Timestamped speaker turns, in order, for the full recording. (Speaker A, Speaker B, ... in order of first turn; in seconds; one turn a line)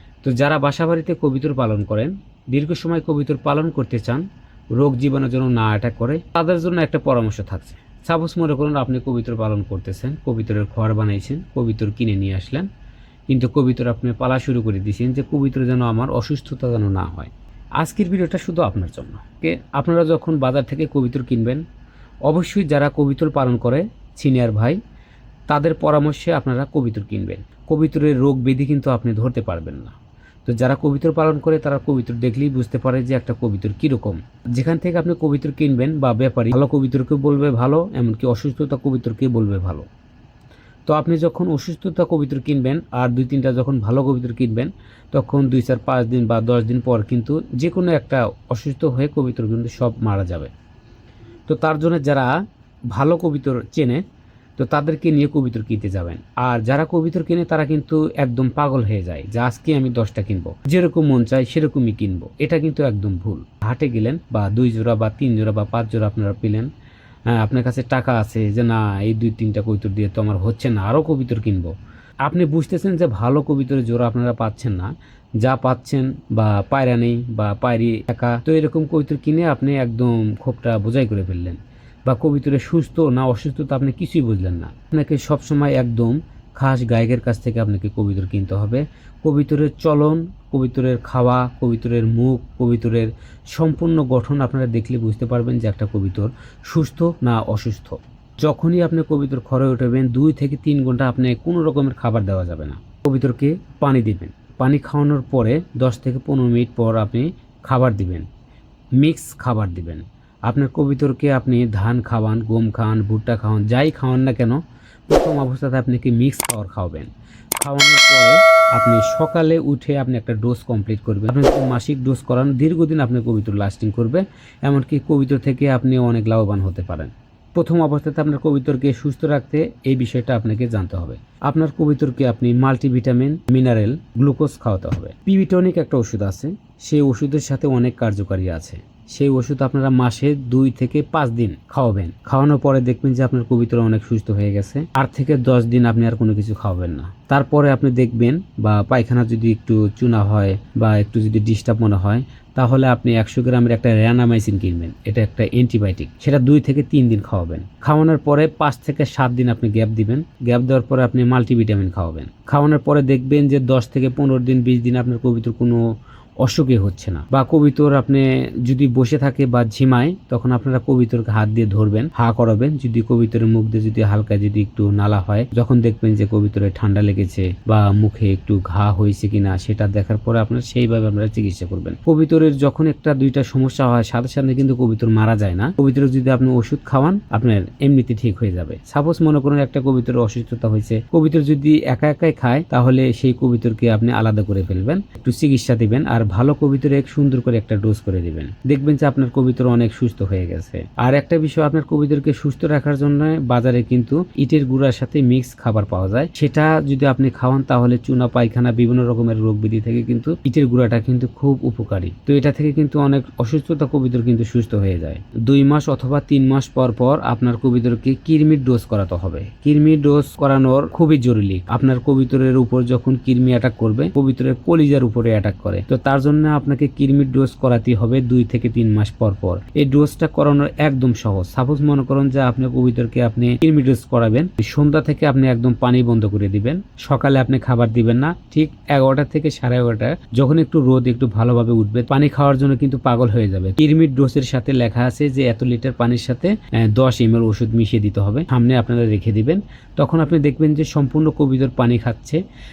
Speaker A: 0.2-4.2
Speaker A: 4.8-12.7
Speaker A: 13.3-21.6
Speaker A: 22.3-24.8
Speaker A: 25.5-39.9
Speaker A: 40.9-50.5
Speaker A: 51.5-52.3
Speaker A: 52.9-54.0
Speaker A: 54.6-66.7
Speaker A: 67.3-71.7
Speaker A: 72.2-108.2
Speaker A: 109.0-165.8
Speaker A: 166.4-252.4